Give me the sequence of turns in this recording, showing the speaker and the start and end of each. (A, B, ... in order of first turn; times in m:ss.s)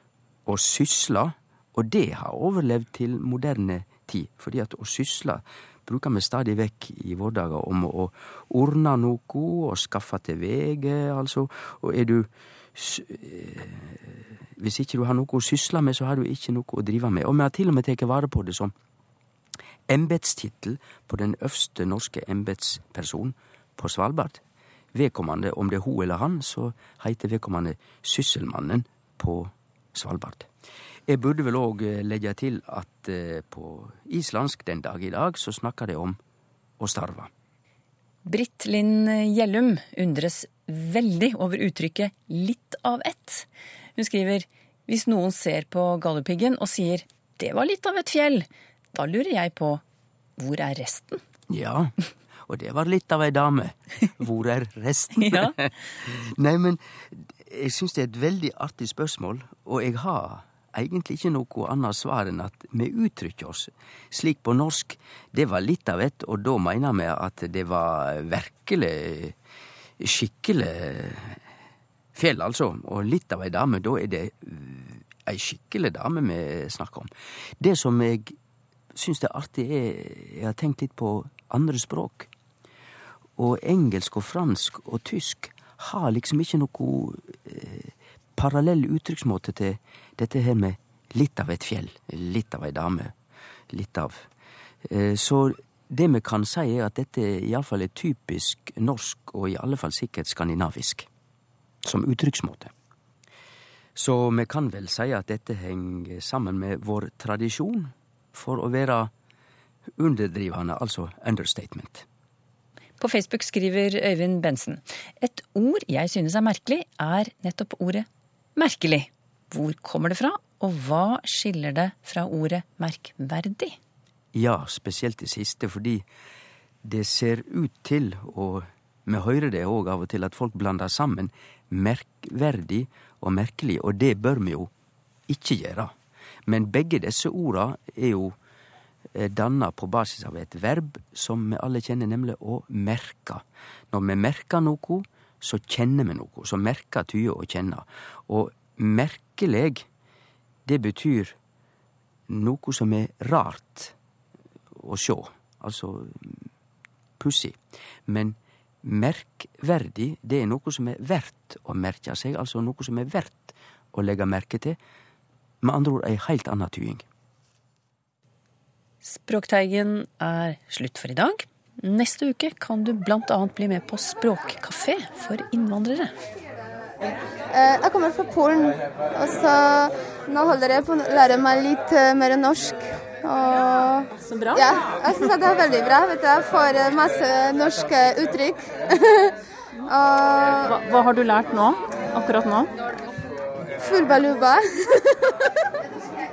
0:00.5-0:18.7 A
0:19.9-0:24.4 A
0:24.9-0:30.5 A
0:31.1-0:36.2 A
0:36.8-0:37.3 A
0:38.2-0:49.8 B
0:50.4-0:51.2 B
0:51.5-0:51.9 A
0:52.5-1:09.4 A
0:55.2-0:55.5 B
1:10.0-1:11.4 A
1:12.2-1:18.4 A
1:18.9-1:22.3 A
1:23.4-1:33.1 A
1:33.7-1:34.3 A
1:34.8-1:41.1 A
1:41.8-1:42.7 A
1:44.0-1:49.1 A
1:50.0-1:52.0 A
1:53.0-2:03.8 B
2:04.3-2:06.0 A
2:06.8-2:14.7 A
2:15.3-2:15.9 A
2:16.5-2:18.4 A
2:19.1-2:29.9 A
2:30.6-2:31.4 A
2:32.3-2:34.0 A
2:34.8-2:36.5 A
2:37.2-2:44.8 A
2:45.6-2:47.0 A
2:49.0-2:56.1 B
2:57.5-3:09.3 C
3:04.2-3:04.7 D
3:09.9-3:10.7 C
3:10.7-3:12.7 D
3:13.8-3:14.6 C